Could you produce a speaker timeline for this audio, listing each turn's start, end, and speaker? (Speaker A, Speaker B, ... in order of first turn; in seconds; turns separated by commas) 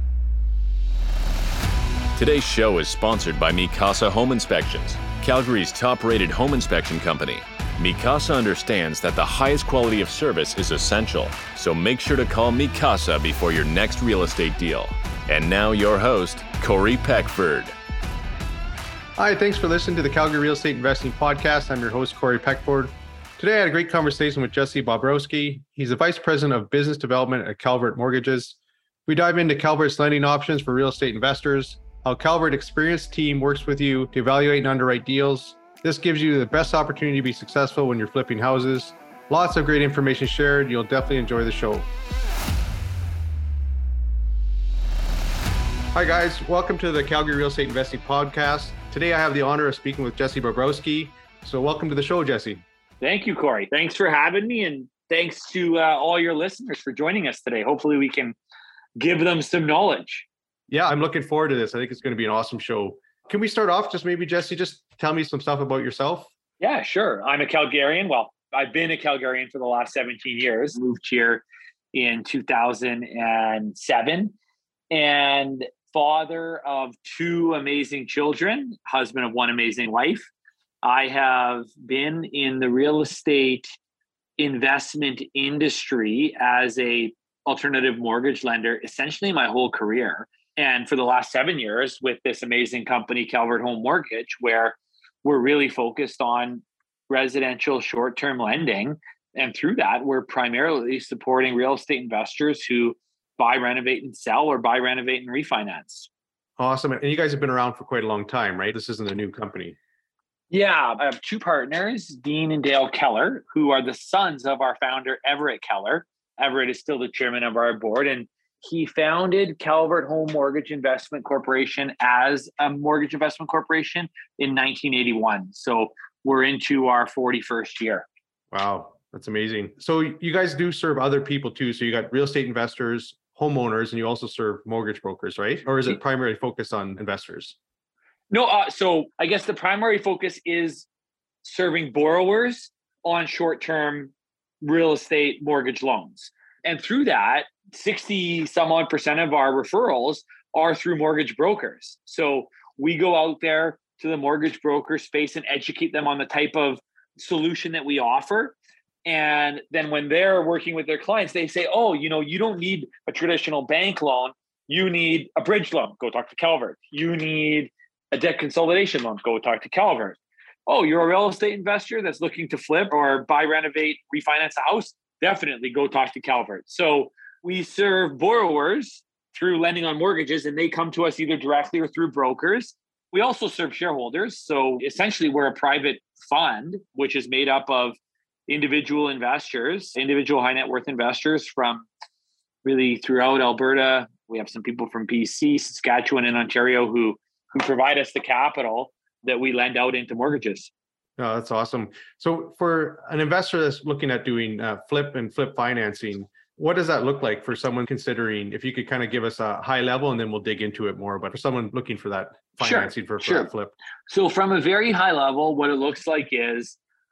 Speaker A: 2.1-17.7, Speaker B: 19.2-41.9, Speaker B: 45.9-52.6, Speaker C: 53.0-58.4, Speaker C: 59.0-60.3, Speaker B: 60.7-66.3, Speaker C: 66.6-74.3, Speaker C: 74.9-80.3, Speaker C: 80.8-83.8, Speaker C: 84.4-106.1, Speaker B: 106.6-109.8, Speaker C: 110.5-128.1, Speaker B: 128.5-137.6, Speaker C: 138.3-140.9, Speaker C: 141.4-191.9, Speaker C: 192.6-200.7, Speaker B: 201.2-213.7, Speaker C: 212.6-213.5, Speaker C: 214.1-216.8